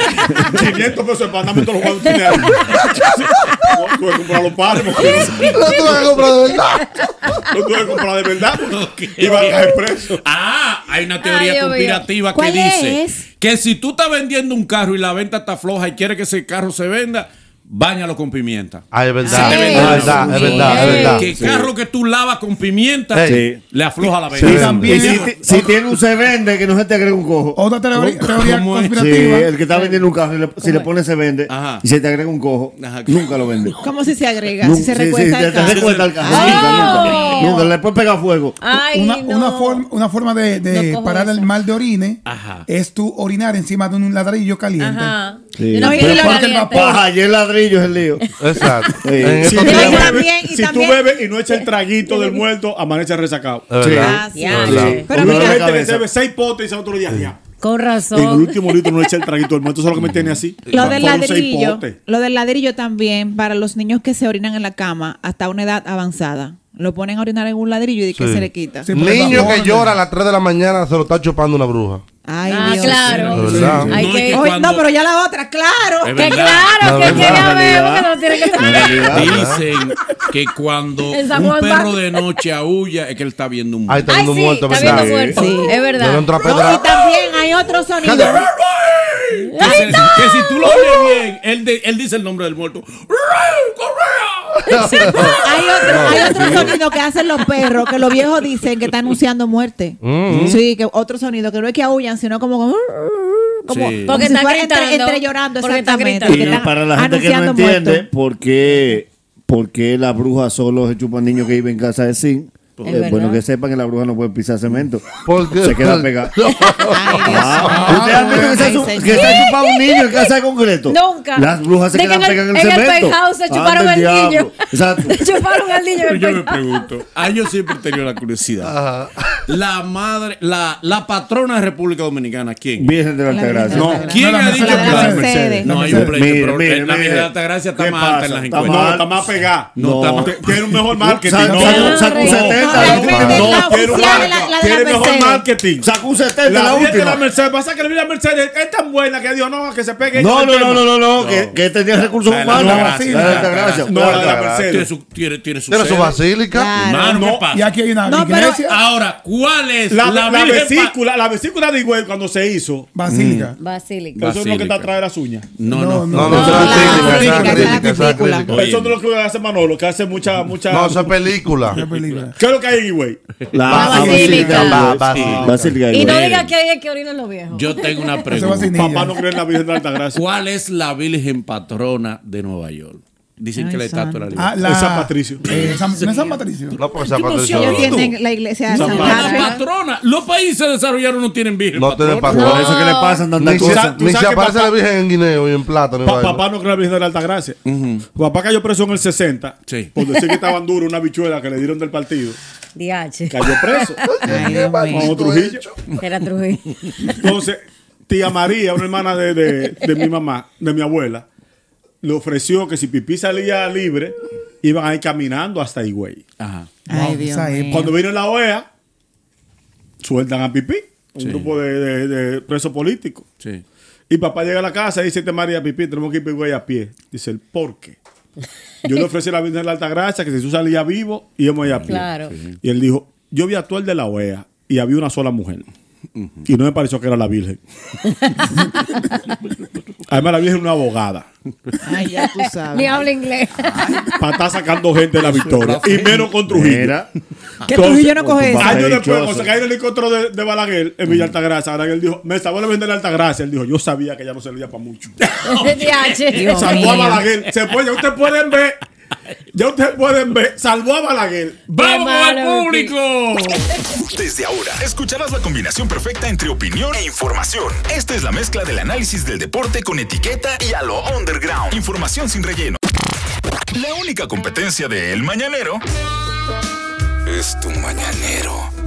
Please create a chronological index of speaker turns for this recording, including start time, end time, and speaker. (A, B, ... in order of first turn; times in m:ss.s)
0:00.4-0:02.6 A
0:02.0-0:02.7 B
0:02.7-0:03.2 C
0:03.7-0:05.6 A
0:04.7-0:06.0 C
0:05.0-0:06.0 B
0:05.5-0:06.8 D
0:07.5-0:10.2 A
0:08.6-0:25.3 C
0:11.2-0:12.0 B
0:12.3-0:13.2 E
0:18.9-0:21.2 D
0:19.2-0:20.1 E
0:19.3-0:21.3 B
0:19.8-0:21.7 F
0:23.1-0:23.4 D
0:23.3-0:27.6 F
0:24.3-0:25.0 D
0:24.4-0:25.5 G
0:27.6-0:29.5 G
0:27.9-0:29.9 C
0:28.9-0:33.8 F
0:31.5-0:31.8 C
0:32.8-0:33.8 C
0:33.8-0:37.6 E
0:34.6-0:38.6 F
0:35.6-0:37.5 C
0:36.3-0:37.7 B
0:38.6-0:39.8 B
0:38.7-0:45.2 G
0:40.6-0:41.5 B
0:42.2-0:42.6 C
0:44.8-0:47.1 B
0:45.6-0:48.2 F
0:45.8-0:46.7 E
0:46.0-0:46.8 G
0:48.2-0:49.1 B
0:48.4-0:50.0 D
0:49.0-0:50.2 F
0:49.4-0:53.7 A
0:49.6-0:51.2 E
0:49.7-0:50.0 B
0:53.7-0:55.0 D
0:53.8-0:56.0 F
0:54.0-0:55.7 E
0:54.3-0:55.1 B
0:55.1-0:57.4 A
0:57.6-0:59.1 B
0:58.1-1:02.0 A
1:00.0-1:01.0 C
1:00.7-1:08.9 E
1:08.1-1:12.0 D
1:08.8-1:10.0 G
1:12.2-1:13.6 E
1:12.5-1:14.5 B
1:12.6-1:14.8 C
1:13.3-1:14.0 D
1:13.6-1:14.0 F
1:14.3-1:16.5 E
1:16.0-1:17.3 C
1:16.2-1:19.2 B
1:16.8-1:17.5 D
1:17.0-1:19.4 F
1:18.7-1:24.1 C
1:19.1-1:19.6 D
1:21.1-1:22.2 B
1:23.9-1:25.3 D
1:24.1-1:26.3 B
1:24.7-1:25.3 C
1:24.8-1:25.3 F
1:25.4-1:25.8 E
1:26.0-1:26.9 D
1:26.4-1:28.5 E
1:28.0-1:28.4 D
1:28.1-1:36.7 C
1:29.5-1:31.2 B
1:34.7-1:35.4 D
1:34.7-1:35.3 B
1:35.4-1:48.1 E
1:35.9-1:36.7 D
1:36.0-1:36.4 B
1:40.0-1:40.6 D
1:40.3-1:40.6 C
1:43.7-1:44.3 C
1:44.1-1:46.7 B
1:46.2-1:56.4 F
1:52.8-1:53.1 C
1:52.9-1:53.4 B
1:55.2-1:58.6 D
1:56.9-1:59.5 E
1:57.2-2:05.2 F
1:57.6-1:58.4 C
1:59.0-2:00.3 B
2:00.9-2:06.6 B
2:06.0-2:08.7 C
2:08.6-2:09.4 D
2:09.5-2:12.9 C
2:12.8-2:14.1 F
2:13.3-2:15.7 E
2:13.7-2:16.0 A
2:14.1-2:19.0 C
2:14.1-2:16.1 G
2:16.0-2:24.2 F
2:18.6-2:25.9 A
2:19.8-2:20.4 C
2:21.4-2:23.5 B
2:22.3-2:25.4 E
2:23.1-2:23.5 D
2:25.8-2:27.2 F
2:26.4-2:30.9 A
2:30.1-2:34.4 F
2:31.2-2:31.6 C
2:32.2-2:36.2 C
2:32.5-2:33.0 A
2:32.6-2:33.5 G
2:33.8-2:34.9 A
2:34.0-2:34.7 D
2:35.7-2:36.7 D
2:36.5-2:37.3 E
2:36.8-2:37.7 C
2:37.1-2:37.5 A
2:37.5-2:38.8 G
2:38.0-2:38.6 E
2:38.5-2:40.9 C
2:39.9-2:42.9 A
2:42.9-2:43.6 G
2:43.1-2:43.5 C
2:43.6-2:44.2 B
2:44.2-2:44.9 C
2:44.2-2:45.5 A
2:45.6-2:46.9 C
2:45.6-2:47.9 G
2:46.1-2:48.6 D
2:46.3-2:48.5 E
2:46.5-2:47.0 B
2:48.5-2:51.1 A
2:48.5-2:49.0 C
2:50.7-2:51.8 D
2:51.7-2:52.3 C
2:51.7-2:52.4 G
2:52.4-2:53.2 A
2:53.5-2:56.3 F
2:53.7-2:55.8 D
2:53.7-2:54.7 G
2:53.7-2:55.0 B
2:55.0-2:56.5 C
2:55.1-2:55.6 A
2:55.9-2:58.2 B
2:57.5-2:58.7 C
2:58.3-2:59.2 G
2:58.7-3:00.2 A
3:00.1-3:04.7 C
3:03.6-3:04.3 E
3:04.4-3:06.8 G
3:04.6-3:05.6 A
3:05.4-3:06.2 C
3:06.0-3:06.3 B
3:06.8-3:08.1 D
3:07.0-3:08.1 C
3:07.5-3:09.6 E
3:08.7-3:12.6 C
3:08.7-3:09.4 A
3:09.0-3:09.5 B
3:11.7-3:12.8 D
3:12.3-3:13.3 B
3:12.3-3:14.0 F
3:13.4-3:16.4 D
3:13.6-3:14.7 A
3:16.0-3:17.6 A
3:17.6-3:18.0 C
3:18.1-3:22.4 A
3:19.7-3:19.9 C
3:22.8-3:23.9 B
3:23.3-3:24.1 A
3:24.1-3:25.8 D
3:24.2-3:25.1 E
3:24.9-3:25.6 A
3:26.0-3:26.7 B
3:27.2-3:31.2 A
3:32.0-3:36.2 A
3:36.4-3:36.7 C
3:36.9-3:37.9 E
3:36.9-3:38.0 G
3:37.7-3:38.6 A
3:40.0-3:43.2 A
3:41.2-3:41.5 C
3:44.1-3:48.0 A
3:48.8-3:52.1 A
3:51.6-3:52.6 C
3:51.8-3:52.3 B
3:52.6-3:55.7 A
3:56.2-3:56.4 C
3:56.4-3:57.6 A
3:58.3-3:59.2 B
4:00.1-4:01.2 A
4:01.8-4:03.1 E
4:02.2-4:03.8 B
4:03.8-4:04.1 C
4:04.2-4:07.0 A
4:05.2-4:06.3 C
4:06.5-4:07.1 F
4:07.6-4:08.8 E
4:07.7-4:15.1 A
4:07.7-4:09.5 F
4:15.2-4:17.5 C
4:15.5-4:17.0 B
4:16.3-4:17.2 E
4:16.5-4:18.8 A
4:19.5-4:21.7 A
4:21.7-4:23.6 C
4:21.8-4:22.9 B
4:24.1-4:32.8 H
4:33.7-4:35.8 H
4:37.2-4:38.7 H